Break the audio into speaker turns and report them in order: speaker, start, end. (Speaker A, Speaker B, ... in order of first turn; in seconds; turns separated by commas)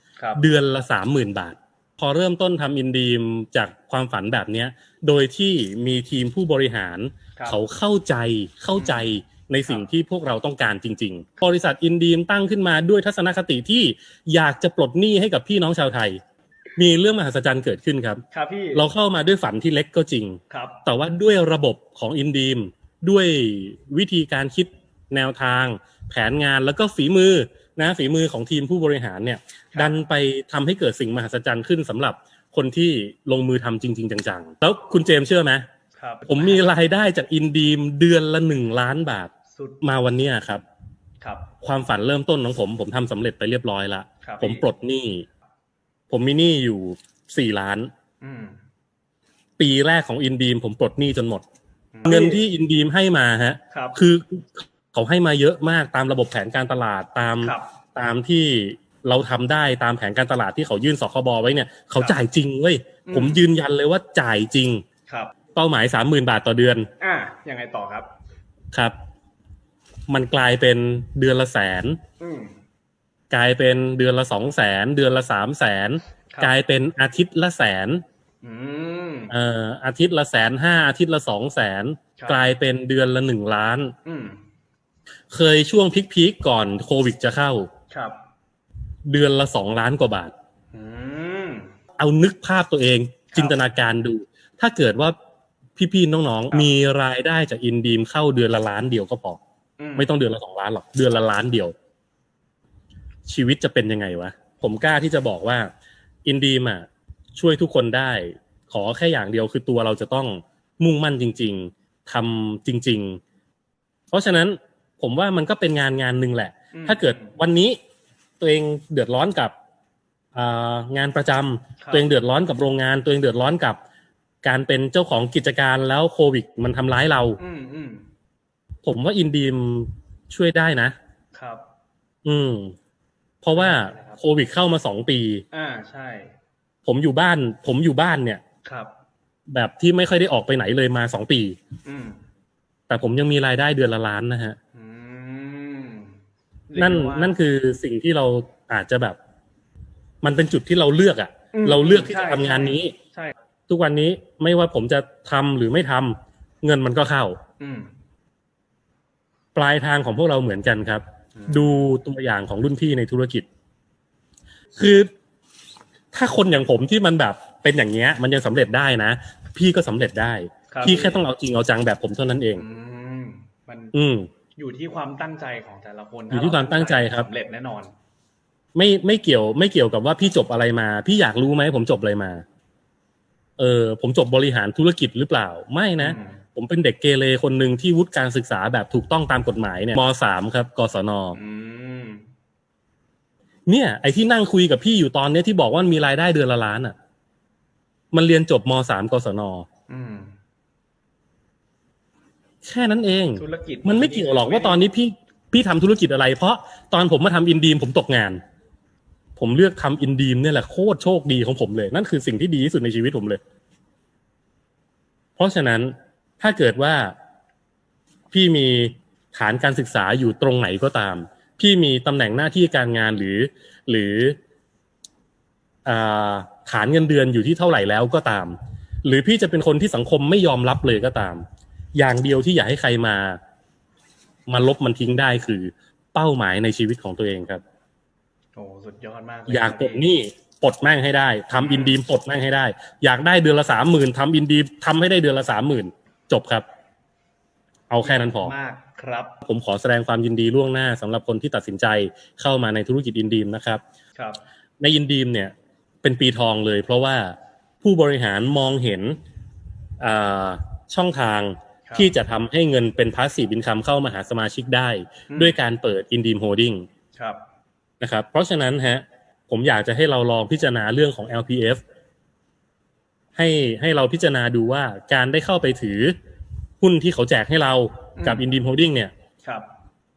Speaker A: 0.2-0.4, Speaker B: 0.3-16.2, Speaker A: 8.7-9.0, Speaker B: 16.8-18.2, Speaker A: 18.3-18.9, Speaker B: 18.7-35.6, Speaker A: 20.5-20.8, Speaker A: 36.0-36.7, Speaker B: 36.3-40.6, Speaker A: 39.5-39.8, Speaker A: 41.2-41.5, Speaker B: 41.6-45.3, Speaker A: 44.2-44.6, Speaker B: 46.1-47.9, Speaker A: 48.2-48.6, Speaker B: 49.6-51.4, Speaker A: 51.9-52.4, Speaker B: 52.0-64.8, Speaker A: 53.7-54.0, Speaker A: 57.4-57.7, Speaker A: 62.0-62.2, Speaker A: 63.0-63.4, Speaker A: 65.1-65.3, Speaker B: 65.5-66.9, Speaker A: 67.0-68.1, Speaker B: 70.1-72.0, Speaker A: 72.2-72.5, Speaker B: 73.3-78.0, Speaker A: 78.4-79.3, Speaker B: 79.3-83.9, Speaker A: 82.2-82.5, Speaker A: 84.0-84.4, Speaker B: 85.3-87.7, Speaker A: 87.9-88.2, Speaker B: 89.0-90.3, Speaker A: 90.7-91.7, Speaker B: 92.0-95.1, Speaker A: 93.3-93.6, Speaker B: 95.8-99.4, Speaker A: 99.8-100.1, Speaker B: 100.0-101.7, Speaker B: 103.3-105.7, Speaker B: 106.2-113.2, Speaker B: 114.1-117.8, Speaker A: 116.7-117.3, Speaker B: 118.4-119.5, Speaker B: 120.3-123.8, Speaker A: 121.8-122.0, Speaker B: 124.4-127.4, Speaker A: 127.4-128.0, Speaker B: 128.8-130.9, Speaker A: 131.3-131.6, Speaker B: 132.2-132.7, Speaker B: 133.4-135.4, Speaker A: 133.5-134.2, Speaker A: 135.5-136.3, Speaker B: 136.8-138.4, Speaker A: 138.6-138.9, Speaker B: 139.5-141.6, Speaker A: 141.8-142.2, Speaker B: 142.9-144.6, Speaker A: 144.7-147.4, Speaker B: 146.8-149.2, Speaker B: 150.2-152.9, Speaker A: 151.5-153.3, Speaker B: 153.7-157.4, Speaker A: 157.6-157.9, Speaker B: 159.5-163.4, Speaker A: 161.4-161.9, Speaker B: 164.8-165.1, Speaker B: 166.1-172.6, Speaker A: 170.7-171.2, Speaker A: 172.5-173.9, Speaker B: 173.9-174.3, Speaker A: 174.6-177.9, Speaker B: 176.3-177.3, Speaker B: 178.7-182.4, Speaker B: 183.6-191.4, Speaker A: 186.0-186.4, Speaker A: 191.3-192.2, Speaker B: 193.7-196.9, Speaker B: 198.1-199.7, Speaker A: 199.9-200.3, Speaker B: 202.6-208.4, Speaker A: 203.3-204.8, Speaker B: 209.4-213.4, Speaker B: 215.4-217.1, Speaker B: 218.3-224.4, Speaker B: 225.8-231.4, Speaker B: 231.9-233.4, Speaker B: 234.5-237.6, Speaker A: 238.6-240.1, Speaker B: 239.5-246.6, Speaker A: 241.6-242.0, Speaker B: 247.9-248.5, Speaker A: 248.0-249.3, Speaker B: 249.4-253.8, Speaker A: 254.2-254.4, Speaker B: 254.8-259.1, Speaker B: 260.0-266.9, Speaker A: 261.9-262.1, Speaker A: 265.3-265.6, Speaker A: 267.1-267.4, Speaker B: 268.0-271.8, Speaker B: 273.4-276.1, Speaker B: 276.8-279.1, Speaker A: 278.2-278.4